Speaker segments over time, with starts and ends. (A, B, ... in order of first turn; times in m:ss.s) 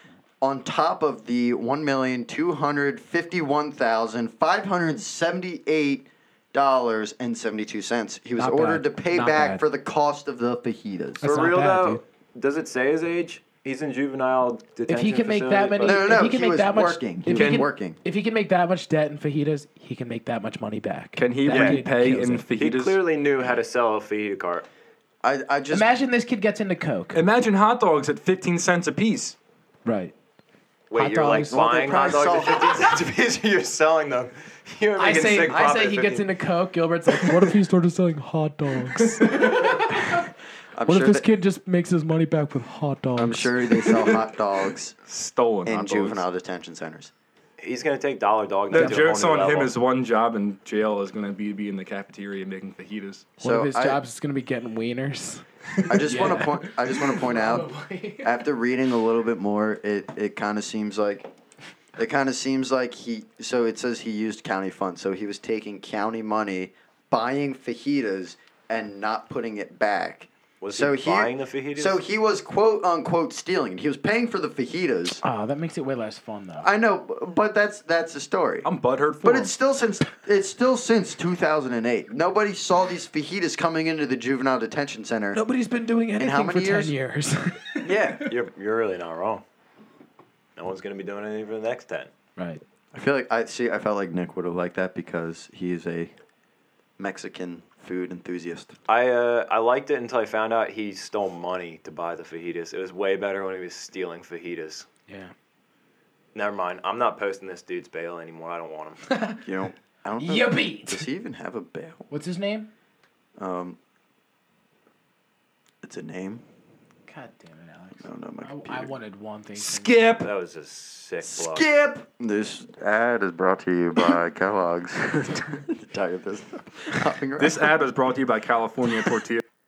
0:00.4-0:11.2 A
0:08.4-0:09.6 B
0:11.2-0:12.0 B
0:11.2-0:16.1 C
0:14.9-0:22.4 B
0:15.8-0:18.0 A
0:17.3-0:17.7 D
0:21.2-0:23.0 D
0:21.5-0:21.8 C
0:22.6-0:24.6 C
0:25.2-0:25.9 A
0:25.7-0:27.2 B
0:27.1-0:29.4 D
0:29.8-0:30.1 B
0:30.9-0:36.3 C
0:30.9-0:31.7 B
0:31.5-0:33.0 A
0:35.0-0:40.3 B
0:39.0-0:39.5 D
0:40.7-0:41.3 A
0:40.8-0:44.1 B
0:43.2-0:44.9 A
0:43.8-0:44.3 D
0:45.1-0:46.2 D
0:45.6-0:47.1 A
0:47.6-0:49.7 C
0:48.7-0:53.3 D
0:48.7-0:49.0 B
0:53.4-0:54.0 A
0:53.4-0:55.4 B
0:55.8-0:56.5 D
0:55.9-0:57.7 A
0:56.0-0:58.4 B
0:58.2-1:01.3 A
1:02.0-1:15.2 A
1:10.6-1:12.0 C
1:15.2-1:16.7 B
1:16.6-1:18.7 A
1:18.6-1:19.5 D
1:19.2-1:25.4 A
1:25.3-1:27.9 B
1:26.2-1:26.9 A
1:27.8-1:28.3 A
1:28.2-1:29.4 C
1:30.6-1:32.1 C
1:32.4-1:32.6 B
1:32.9-1:36.1 A
1:37.0-1:38.8 A
1:38.9-1:44.8 C
1:45.1-1:45.3 B
1:46.3-1:49.0 C
1:49.0-1:49.4 B
1:49.4-1:52.1 A
1:50.2-1:51.0 B
1:52.1-1:52.7 B
1:53.4-1:53.8 A
1:55.8-1:56.4 A
1:57.1-2:00.0 B
1:58.0-1:58.9 A
1:59.6-2:00.3 D
2:00.2-2:01.6 C
2:01.2-2:07.8 A
2:07.4-2:09.4 D